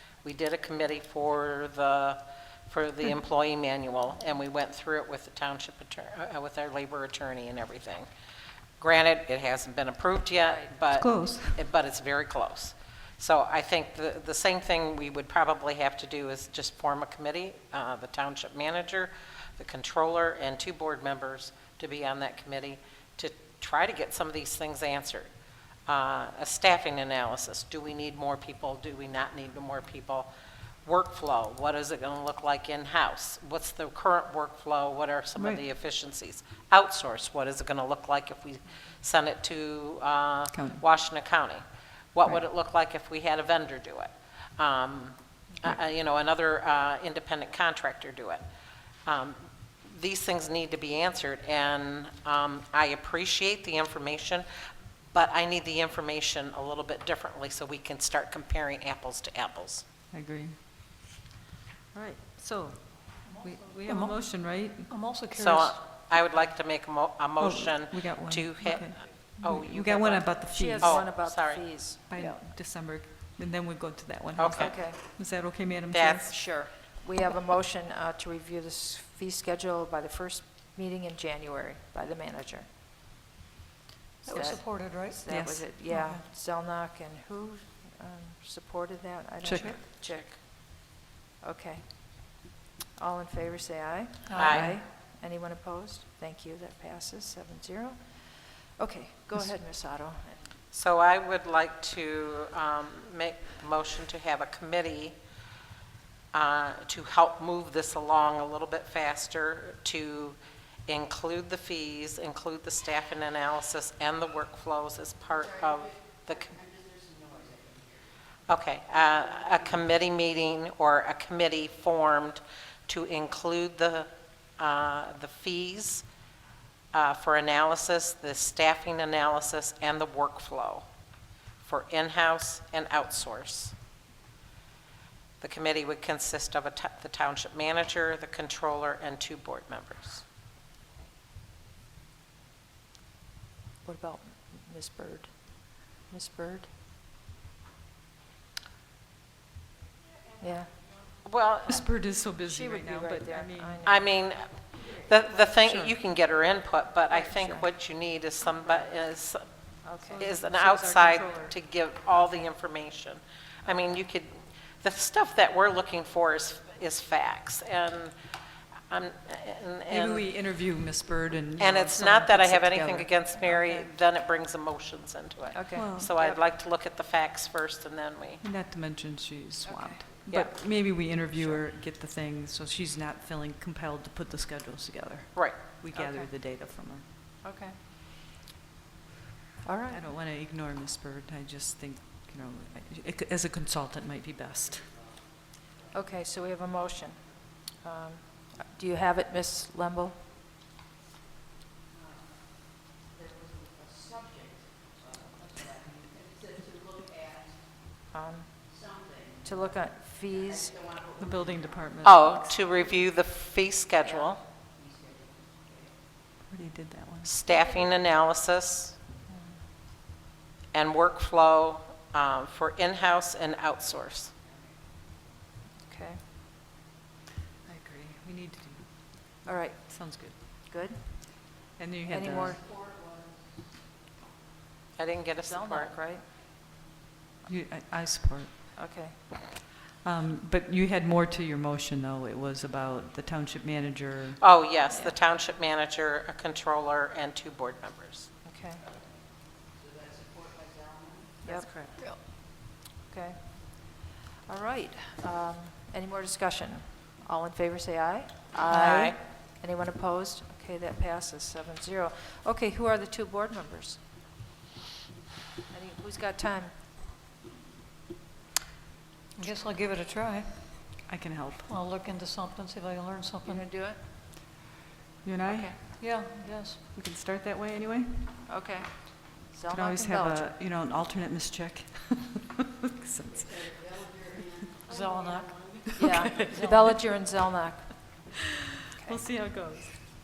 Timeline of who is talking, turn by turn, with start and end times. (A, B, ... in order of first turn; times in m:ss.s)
0:00.2-0:08.1 A
0:08.8-0:25.3 A
0:10.5-0:10.7 B
0:11.0-0:11.6 C
0:25.9-0:30.3 A
0:30.8-0:41.6 A
0:40.5-0:40.8 C
0:42.2-0:48.4 A
0:49.1-0:54.5 A
0:55.1-0:59.8 A
1:00.1-1:00.6 C
1:01.9-1:04.9 C
1:03.2-1:04.3 D
1:04.9-1:05.8 D
1:05.3-1:11.6 A
1:07.4-1:11.1 C
1:10.5-1:12.4 B
1:12.1-1:16.3 C
1:14.4-1:14.8 A
1:14.6-1:15.0 B
1:15.9-1:16.3 A
1:16.3-1:22.7 B
1:24.2-1:25.2 D
1:24.2-1:40.5 B
1:25.3-1:26.2 C
1:29.4-1:29.8 C
1:29.7-1:30.2 A
1:34.3-1:34.6 D
1:34.3-1:34.8 A
1:40.7-1:45.2 A
1:46.3-1:56.6 A
1:58.5-2:06.0 A
2:06.9-2:10.9 A
2:11.6-2:13.8 A
2:15.4-2:20.2 A
2:23.8-2:26.7 B
2:30.4-2:30.7 B
2:31.2-2:31.8 A
2:31.6-2:33.8 C
2:32.5-2:34.1 B
2:33.8-2:39.5 A
2:35.6-2:35.9 C
2:37.1-2:37.6 C
2:39.8-2:40.3 B
2:40.1-2:41.6 C
2:40.2-2:48.1 A
2:48.9-2:50.3 A
2:49.9-2:53.2 C
2:51.6-2:58.4 A
2:55.5-2:56.4 B
2:55.8-2:56.1 C
2:58.4-3:07.0 C
2:59.6-3:00.0 B
3:00.3-3:00.6 A
3:06.0-3:06.3 B
3:07.4-3:07.8 B
3:09.6-3:10.0 B
3:09.9-3:15.0 C
3:15.9-3:20.3 B
3:28.1-3:28.6 B
3:29.4-3:30.8 B
3:31.2-3:32.5 C
3:32.0-3:34.4 A
3:34.0-3:34.3 B
3:36.4-3:37.3 C
3:37.2-3:39.0 A
3:39.3-3:39.6 B
3:40.7-3:44.3 A
3:45.8-3:46.2 B
3:47.7-3:50.4 C
3:49.4-3:49.9 B
3:50.4-3:51.4 B
3:51.8-3:52.6 C
3:52.1-3:52.6 B
3:55.0-3:55.9 A
3:55.5-3:56.3 B
3:57.5-3:58.5 C
3:58.8-3:59.2 B
4:00.0-4:04.4 C
4:04.4-4:08.3 A
4:08.4-4:08.8 B
4:11.5-4:11.9 C
4:11.9-4:12.2 D
4:13.0-4:24.0 B
4:18.7-4:19.2 A
4:25.7-4:26.8 B
4:29.4-4:31.0 D
4:31.0-4:31.7 C
4:31.7-4:33.6 D
4:33.4-4:34.1 B
4:35.2-4:35.9 C
4:35.4-4:35.8 B
4:35.9-4:36.8 D
4:36.9-4:38.4 C
4:38.5-4:40.5 B
4:39.7-4:44.3 C
4:44.9-4:45.7 D
4:45.7-4:47.0 C
4:46.0-4:48.3 B
4:46.5-4:46.8 D
4:48.9-4:49.2 B
4:49.0-4:50.1 C